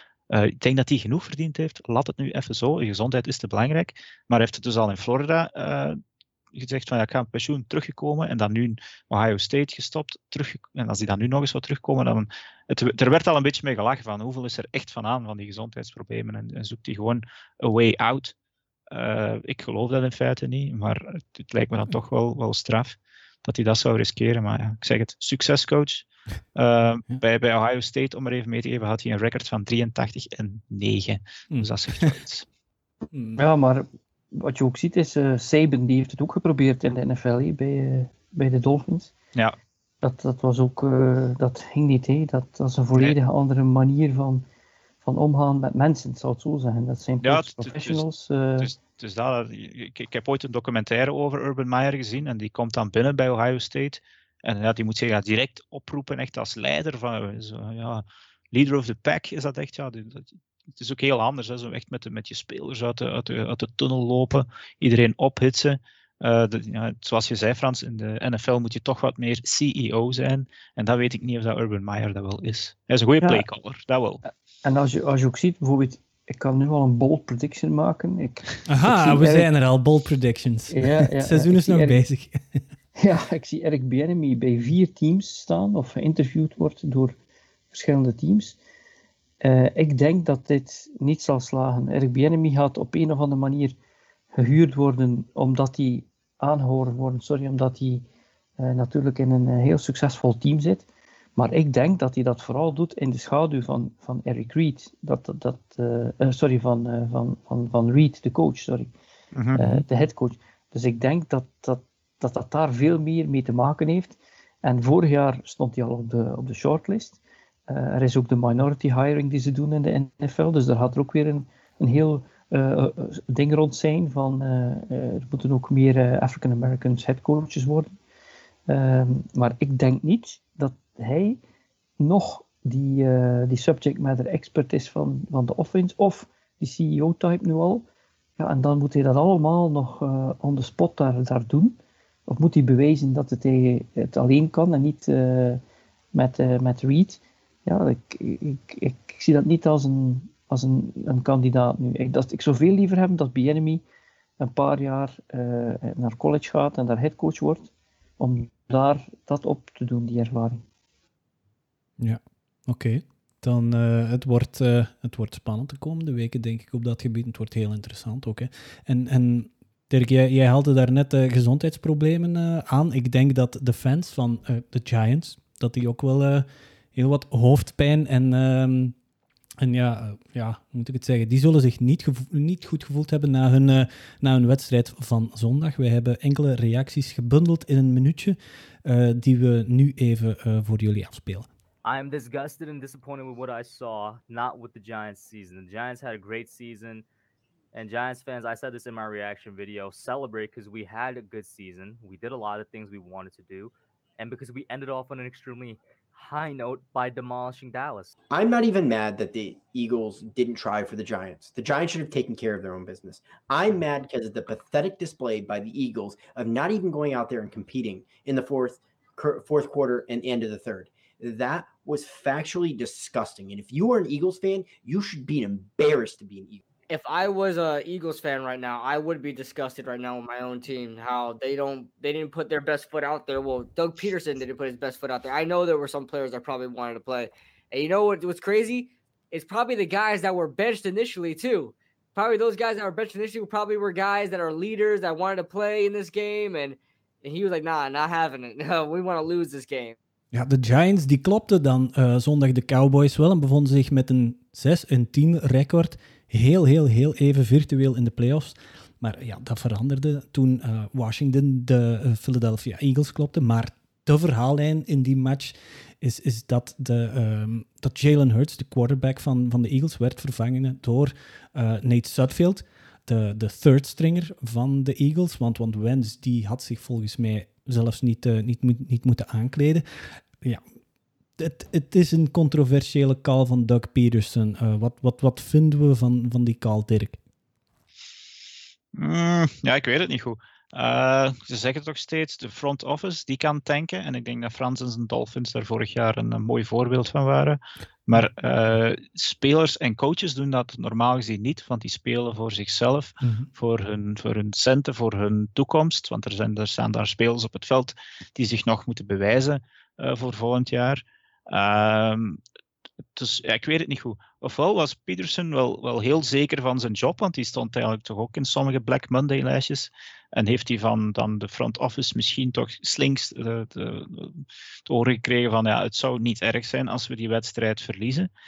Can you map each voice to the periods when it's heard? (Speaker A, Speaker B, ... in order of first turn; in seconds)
Speaker A: 0.3-6.0, 6.5-18.3, 18.9-32.5, 47.2-48.0, 48.6-74.2, 109.3-109.8, 288.9-312.4, 313.1-328.3
Speaker B: 31.5-32.1, 33.1-33.4, 78.7-82.6, 162.0-179.0, 179.6-191.5, 250.3-279.9, 281.4-287.2, 303.2-303.5
Speaker C: 33.4-39.1, 40.0-44.5, 45.0-48.7, 74.6-79.5, 80.7-82.0, 83.0-87.2, 87.7-88.6, 89.4-93.8, 94.4-98.0, 98.6-108.9, 109.5-127.9, 128.7-131.4, 132.0-137.8, 138.4-145.6, 146.1-153.8, 154.4-160.6
Speaker D: 191.8-197.1, 197.7-208.1
Speaker E: 208.3-226.6
Speaker F: 226.9-250.0